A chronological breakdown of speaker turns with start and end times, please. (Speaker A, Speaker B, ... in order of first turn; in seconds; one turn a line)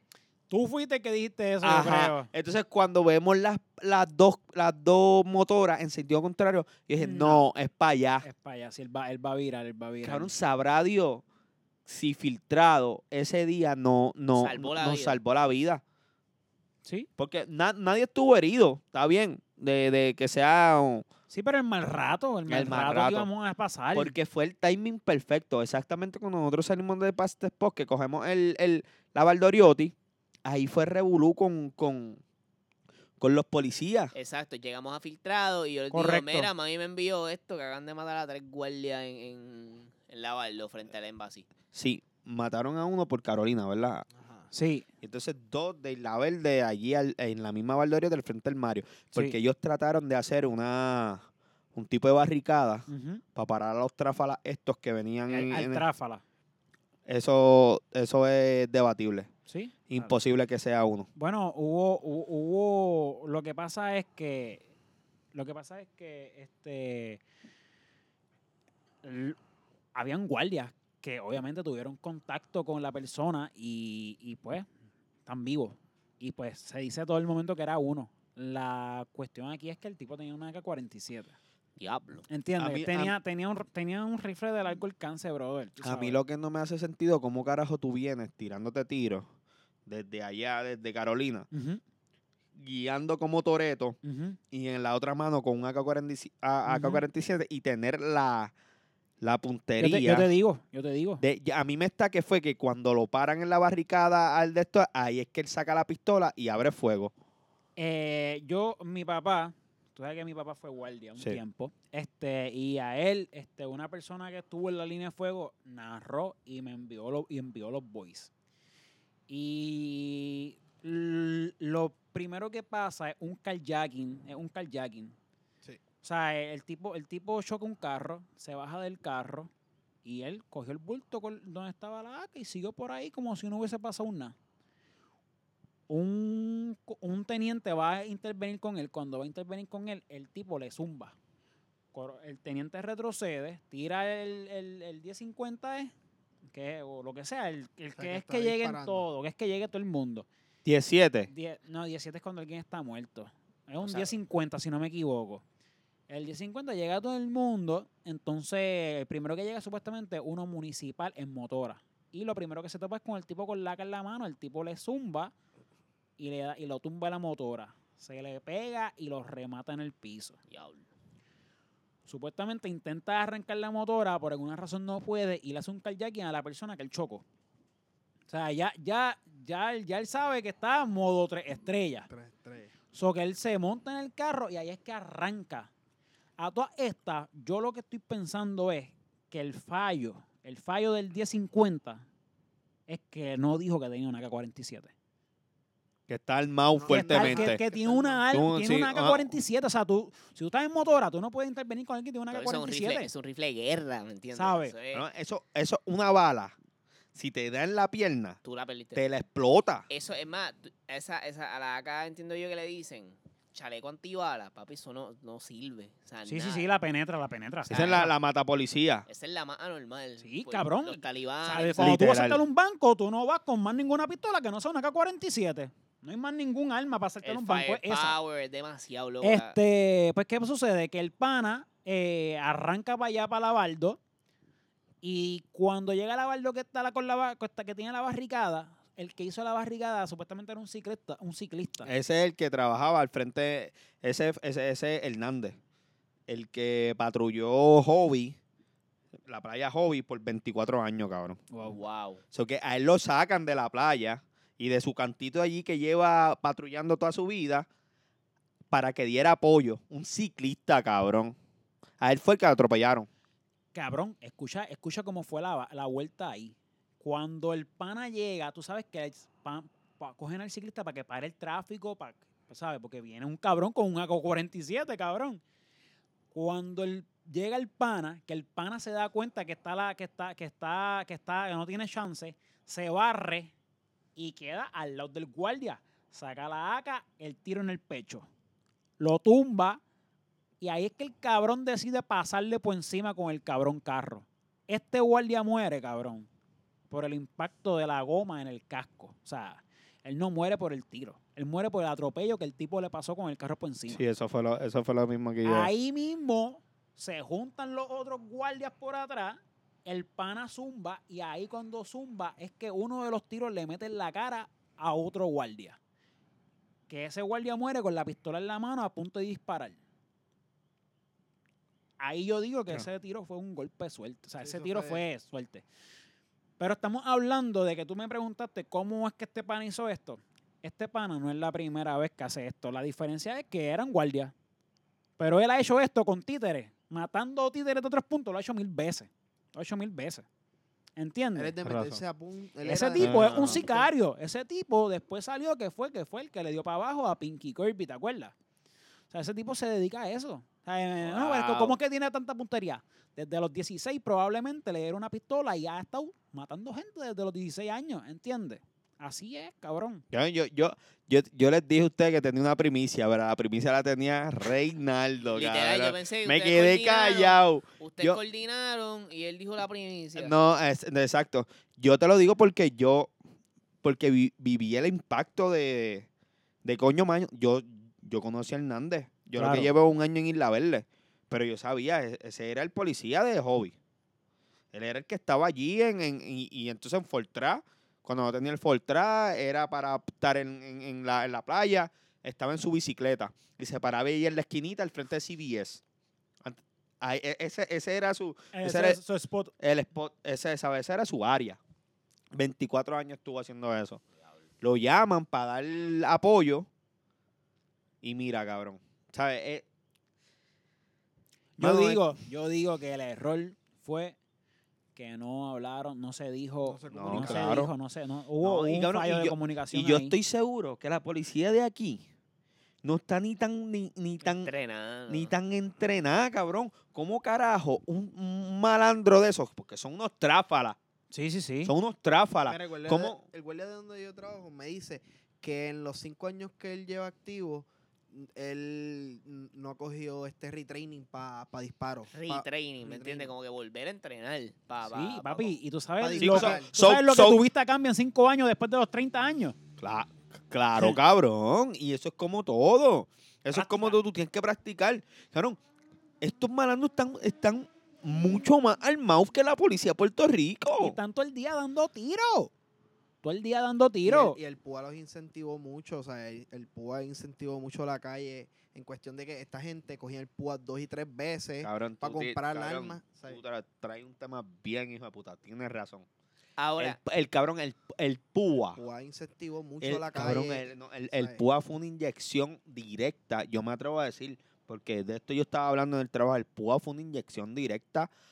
Speaker A: 0.5-2.3
Speaker B: 1.6-8.3
Speaker A: 7.0-7.5
Speaker A: 8.2-10.3
Speaker B: 10.0-11.2
Speaker B: 11.9-15.8
Speaker C: 14.3-15.2
Speaker A: 16.8-17.1
Speaker B: 17.2-21.1
Speaker A: 21.3-24.2
Speaker B: 22.5-23.3
Speaker B: 23.9-29.9
Speaker B: 30.4-32.2
Speaker B: 33.2-34.1
Speaker C: 34.1-41.5
Speaker A: 35.9-36.5
Speaker B: 41.7-44.1
Speaker D: 44.1-44.5
Speaker A: 44.5-44.9
Speaker B: 45.0-55.9
Speaker A: 52.9-53.2
Speaker A: 55.3-56.2
Speaker B: 57.1-59.3
Speaker A: 59.5-60.2
Speaker B: 59.9-61.1
Speaker A: 61.2-64.7
Speaker A: 65.3-67.2
Speaker A: 69.0-69.4
Speaker A: 69.9-74.7
Speaker A: 75.3-81.3
Speaker C: 81.8-82.3
Speaker A: 82.3-86.2
Speaker B: 82.6-83.2
Speaker B: 85.8-89.3
Speaker B: 89.9-91.5
Speaker A: 91.5-91.8
Speaker B: 92.6-94.0
Speaker A: 94.0-94.4
Speaker B: 94.5-98.5
Speaker A: 96.7-97.0
Speaker B: 99.2-100.3
Speaker A: 99.8-101.2
Speaker B: 101.2-107.1
Speaker A: 107.8-118.3
Speaker A: 119.3-125.2
Speaker A: 126.0-129.5
Speaker A: 130.0-134.3
Speaker A: 135.9-141.2
Speaker A: 141.9-145.9
Speaker A: 146.5-150.3
Speaker D: 148.0-149.1
Speaker B: 150.7-151.3
Speaker A: 151.3-155.4
Speaker C: 153.8-154.1
Speaker A: 156.1-165.3
Speaker A: 166.2-170.4
Speaker C: 170.5-170.9
Speaker A: 172.1-177.2
Speaker A: 178.3-182.1
Speaker D: 182.1-182.7
Speaker A: 182.9-185.7
Speaker A: 186.4-192.1
Speaker A: 192.9-194.9
Speaker B: 196.1-197.6
Speaker D: 196.7-198.3
Speaker A: 196.9-203.1
Speaker B: 198.3-199.3
Speaker C: 202.3-205.1
Speaker A: 204.3-204.7
Speaker B: 204.9-206.6
Speaker B: 207.2-208.4
Speaker C: 208.4-209.0
Speaker B: 208.9-209.9
Speaker C: 209.9-216.7
Speaker A: 216.3-218.1
Speaker B: 217.7-219.1
Speaker C: 219.1-222.0
Speaker A: 220.2-228.2
Speaker B: 221.8-222.4
Speaker C: 227.2-229.6
Speaker A: 229.2-234.0
Speaker A: 235.0-241.9
Speaker B: 241.8-245.6
Speaker B: 246.3-248.4
Speaker B: 249.3-251.4
Speaker A: 251.5-251.8
Speaker C: 251.6-252.2
Speaker B: 252.3-257.7
Speaker B: 258.7-261.4
Speaker B: 262.0-263.1
Speaker A: 263.7-275.4
Speaker A: 276.3-283.5
Speaker A: 284.2-288.3
Speaker A: 289.0-289.8
Speaker A: 290.6-296.3
Speaker A: 296.9-304.0
Speaker B: 303.9-305.7
Speaker A: 305.4-315.8
Speaker A: 316.9-319.8
Speaker A: 322.0-325.6
Speaker D: 324.4-325.1
Speaker A: 326.6-334.3
Speaker A: 335.2-340.3
Speaker A: 341.0-341.6
Speaker D: 341.3-343.9
Speaker B: 341.6-342.0
Speaker A: 342.6-348.3
Speaker B: 343.0-343.7
Speaker A: 349.1-360.1
Speaker B: 351.0-351.8
Speaker B: 360.1-368.2
Speaker C: 365.3-370.4
Speaker B: 370.2-373.1
Speaker B: 373.8-376.1
Speaker B: 376.6-383.8
Speaker A: 379.4-379.7
Speaker B: 384.7-395.8
Speaker B: 396.4-399.0
Speaker A: 398.5-399.5
Speaker B: 399.6-401.6
Speaker B: 402.3-404.0
Speaker B: 404.6-406.7
Speaker B: 408.0-409.6
Speaker A: 411.6-414.2
Speaker B: 411.6-412.1
Speaker A: 414.9-420.1
Speaker D: 416.6-417.6
Speaker B: 416.9-417.7
Speaker B: 418.4-422.1
Speaker B: 422.8-424.5
Speaker C: 424.2-425.3
Speaker B: 425.1-430.8
Speaker A: 431.1-431.7
Speaker B: 431.6-433.2
Speaker D: 432.5-443.3
Speaker C: 442.1-445.6
Speaker A: 444.8-449.6
Speaker D: 446.0-446.7
Speaker B: 446.2-447.4
Speaker B: 449.8-455.6
Speaker A: 453.5-454.0
Speaker B: 456.2-461.0
Speaker A: 460.8-462.5
Speaker A: 463.2-464.4
Speaker D: 464.1-473.4
Speaker B: 471.6-476.1
Speaker C: 476.6-477.0
Speaker B: 476.8-478.8
Speaker D: 478.7-481.4
Speaker B: 479.8-488.1